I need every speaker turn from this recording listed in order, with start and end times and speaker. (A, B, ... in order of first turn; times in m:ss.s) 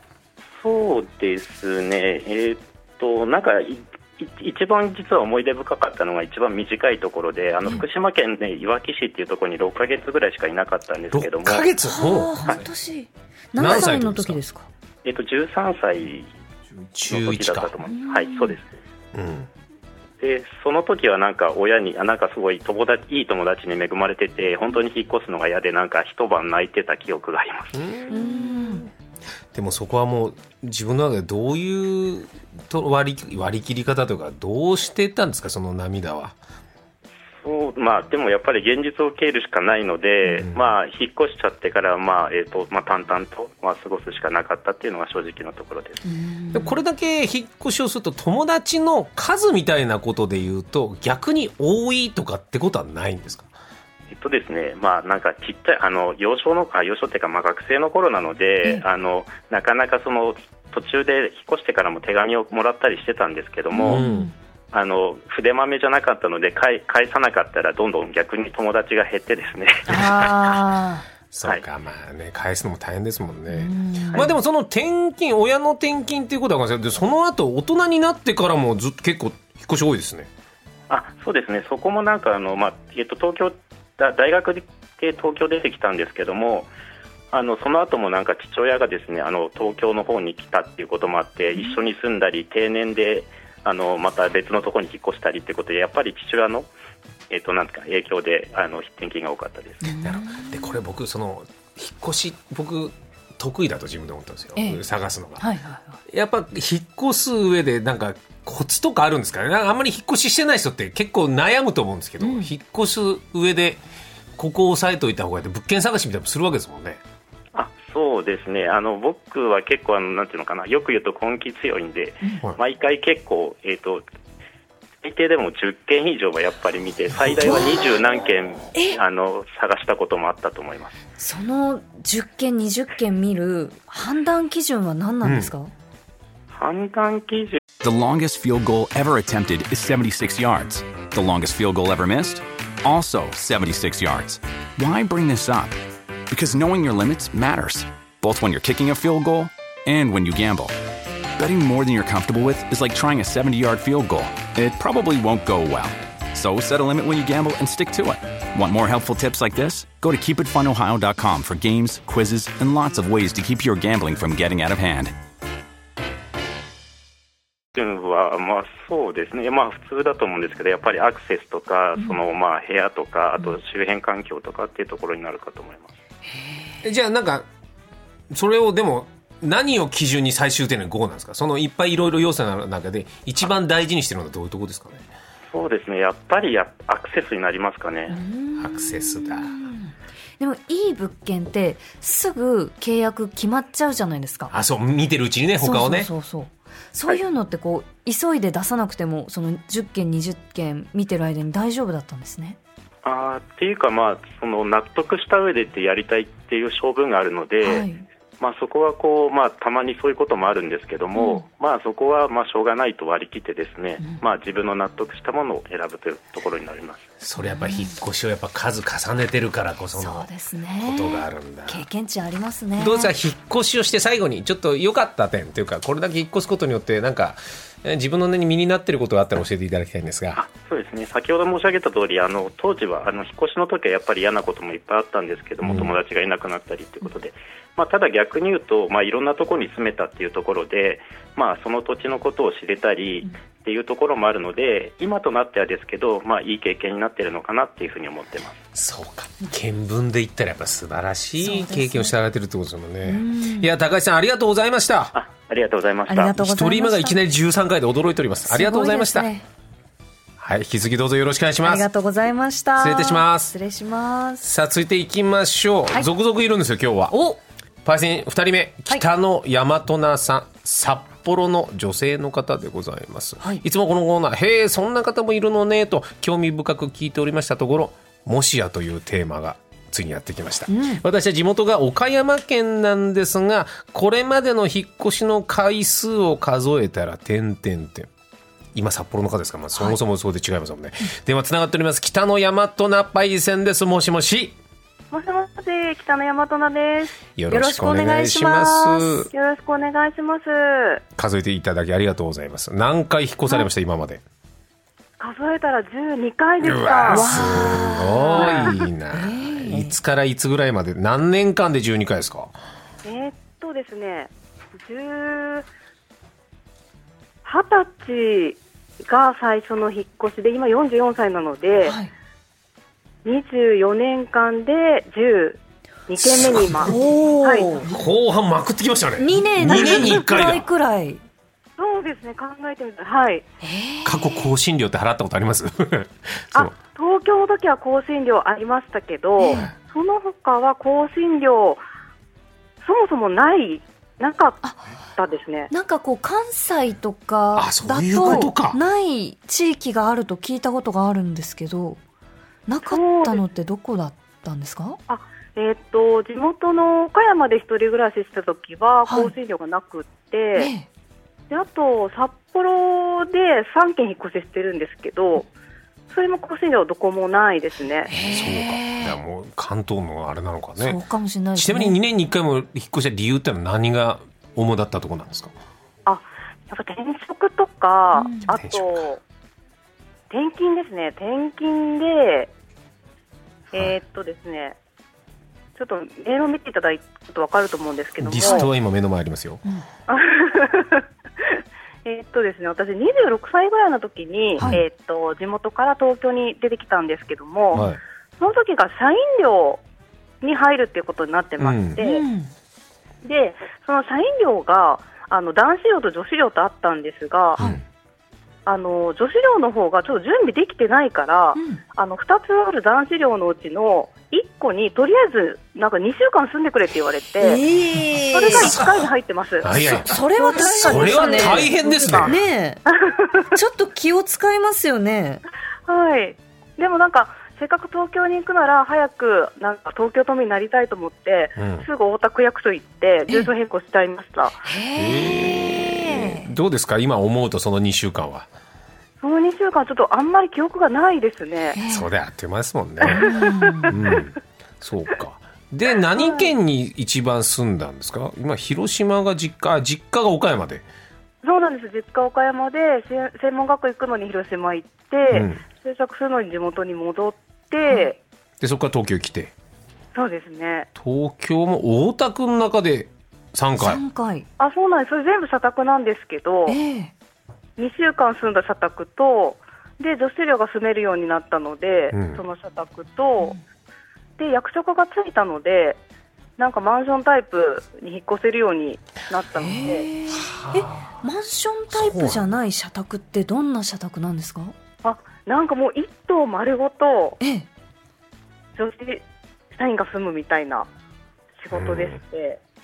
0:00.6-0:11.7 A
0:11.1-0:12.6 B
0:11.8-0:14.7 C
0:13.6-0:14.4 B
0:15.0-0:16.3 A
0:16.9-0:17.7 B
0:17.0-0:18.6 A
0:17.9-0:18.6 C
0:19.1-0:19.5 B
0:20.2-0:27.7 A
0:27.7-0:28.9 B
0:28.1-0:28.9 C
0:29.5-0:36.4 B
0:37.4-0:46.0 A
0:46.0-0:46.8 C
0:46.5-0:53.5 B
0:54.1-1:04.0 A
1:03.7-1:04.3 C
1:03.8-1:04.3 B
1:04.7-1:10.4 A
1:09.9-1:11.0 C
1:09.9-1:10.2 B
1:11.3-1:20.3 B
1:13.5-1:14.2 C
1:20.9-1:26.7 A
1:27.3-1:36.7 A
1:37.3-1:40.0 A
1:39.8-1:40.7 C
1:40.0-1:45.5 B
1:44.5-1:44.8 C
1:45.4-1:46.0 C
1:46.1-1:53.8 B
1:52.2-1:52.5 C
1:54.4-1:57.0 B
1:57.5-2:04.0 A
2:05.0-2:10.9 A
2:11.2-2:15.7 C
2:15.2-2:15.5 B
2:16.5-2:17.6 A
2:17.8-2:25.8 D
2:26.3-2:30.7 D
2:31.4-2:45.1 D
2:47.7-2:55.9 A
2:56.8-2:57.5 B
2:58.3-3:05.1 B
3:05.5-3:08.2 A
3:08.1-3:14.5 C
3:08.6-3:09.6 B
3:14.5-3:16.1 B
3:15.6-3:22.6 C
3:23.0-3:27.9 A
3:27.6-3:28.0 C
3:28.4-3:37.1 A
3:31.2-3:31.4 C
3:37.2-3:40.3 B
3:37.4-3:38.0 C
3:40.0-3:43.1 C
3:40.8-3:41.8 B
3:42.8-3:50.4 B
3:50.4-4:08.6 A
3:55.6-3:55.9 B
4:08.7-4:15.1 B
4:11.4-4:12.1 C
4:13.0-4:13.7 C
4:15.1-4:16.3 A
4:16.1-4:17.2 C
4:16.3-4:19.3 B
4:18.5-4:19.4 C
4:20.4-4:21.8 B
4:21.6-4:24.5 C
4:22.8-4:23.5 B
4:24.4-4:27.2 B
4:27.1-4:27.4 C
4:27.8-4:48.1 B
4:40.7-4:41.0 C
4:48.7-4:54.6 B
4:55.1-4:57.2 E
4:57.4-4:59.3 B
4:57.5-4:59.3 C
4:59.3-5:01.0 E
5:01.2-5:04.2 B
5:05.2-5:07.8 E
5:06.6-5:12.5 B
5:07.1-5:10.0 C
5:08.3-5:08.8 E
5:13.0-5:15.6 E
5:17.4-5:22.0 E
5:21.8-5:22.1 C
5:23.2-5:27.8 E
5:26.2-5:26.9 B
5:26.8-5:27.9 C
5:27.8-5:30.6 B
5:29.2-5:31.2 C
5:31.8-5:33.4 E
5:33.6-5:34.5 C
5:34.0-5:36.7 B
5:36.5-5:41.8 E
5:39.4-5:39.7 C
5:42.8-5:44.6 E
5:45.2-5:45.7 E
5:45.7-5:52.0 C
5:47.5-5:48.8 B
5:52.7-5:55.0 C
5:52.8-5:53.4 E
5:55.1-6:00.7 E
5:59.0-5:59.3 C
6:00.6-6:00.9 C
6:01.5-6:05.5 E
6:06.1-6:08.1 E
6:08.1-6:09.2 C
6:08.3-6:11.0 B
6:10.8-6:12.0 C
6:11.5-6:15.5 B
6:16.0-6:19.2 E
6:18.1-6:18.5 C
6:18.5-6:19.1 B
6:20.3-6:22.5 E
6:23.7-6:24.8 E
6:25.8-6:28.7 E
6:28.2-6:29.6 B
6:28.4-6:28.7 C
6:30.1-6:37.8 E
6:37.7-6:38.0 B
6:38.4-6:39.8 E
6:40.4-6:42.2 E
6:41.6-6:42.0 B
6:42.0-6:42.5 C
6:43.2-6:47.6 E
6:48.6-6:57.6 E
6:51.5-6:51.8 C
6:57.4-6:58.7 C
6:58.3-7:02.3 E
6:58.5-6:59.1 B
6:59.6-7:02.4 B
7:00.0-7:02.8 C
7:03.0-7:03.4 E
7:03.5-7:05.4 C
7:05.9-7:14.6 E
7:11.6-7:11.9 B
7:14.6-7:16.5 C
7:15.0-7:18.5 B
7:19.2-7:21.8 E
7:21.8-7:22.1 C
7:21.9-7:23.2 B
7:23.0-7:24.2 E
7:23.1-7:23.9 C
7:23.9-7:30.8 B
7:26.2-7:26.5 E
7:31.4-7:38.2 E
7:35.3-7:35.6 B
7:38.6-7:39.5 B
7:40.1-7:40.9 E
7:41.0-7:44.0 B
7:43.8-7:44.4 C
7:44.6-7:46.8 E
7:46.7-7:47.1 C
7:47.8-7:53.5 E
7:52.1-7:52.4 B
7:54.4-7:56.0 E
7:56.6-8:00.1 E
7:59.6-8:04.7 C
8:00.3-8:01.2 B
8:01.9-8:02.5 B
8:05.0-8:07.4 E
8:07.4-8:07.7 C
8:08.8-8:10.9 E
8:11.6-8:12.6 E
8:11.7-8:12.2 B